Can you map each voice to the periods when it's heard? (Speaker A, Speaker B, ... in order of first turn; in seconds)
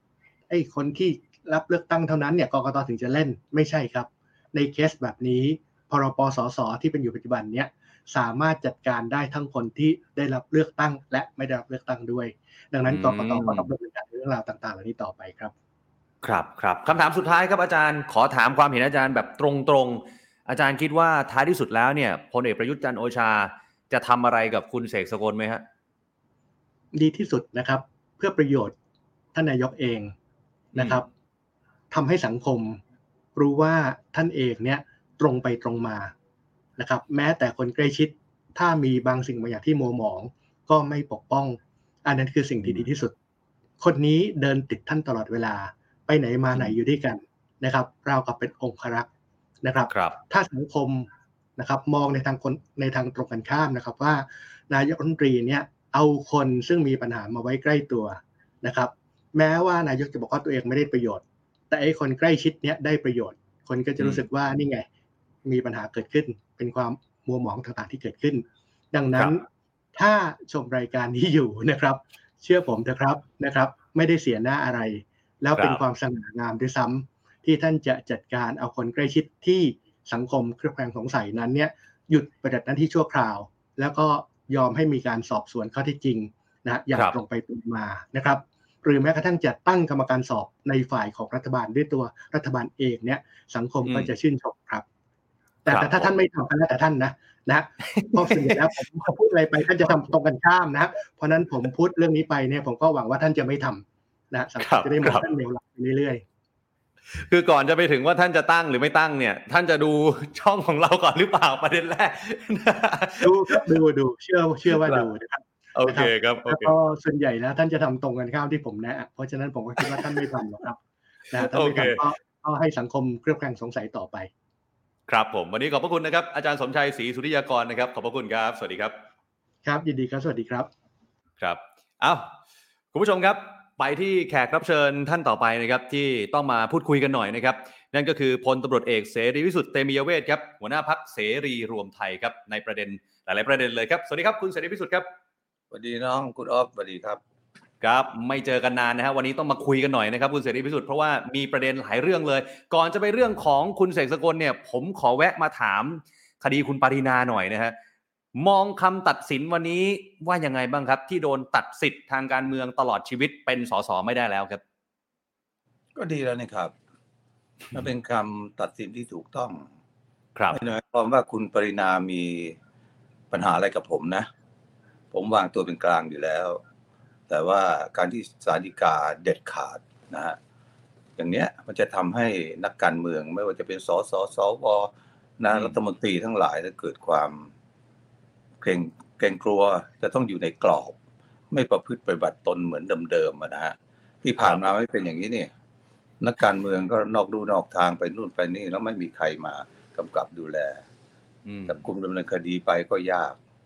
Speaker A: 0.5-15.5, 26.9-28.7, 29.3-30.1, 30.7-31.1, 31.9-32.8, 33.4-36.1, 36.8-43.1, 43.8-49.1, 49.6-64.8, 65.4-69.4, 69.9-94.8, 95.6-106.2, 113.2-120.8, 121.3-124.3, 129.6-130.7
Speaker B: 12.9-13.7, 16.2-25.6, 30.8-31.0, 42.6-42.9, 49.9-50.2, 64.0-64.2, 75.5-75.8, 93.8-94.1, 95.7-96.1, 97.9-98.7, 104.6-105.2, 107.1-113.7, 114.7-115.1, 115.7-116.7, 119.8-120.2, 121.3-122.0, 125.1-128.9, 131.4-132.3, 132.9-145.1, 147.8-157.7, 158.4-164.6, 185.5-185.8, 194.4-194.7, 201.4-201.8
Speaker C: 145.7-147.2, 165.9-166.7, 167.7-169.7, 170.5-172.6, 173.3-174.3, 175.1-176.6, 177.3-180.4, 181.2-187.5, 188.6-190.9, 191.5-195.5, 196.2-200.8, 201.7-203.4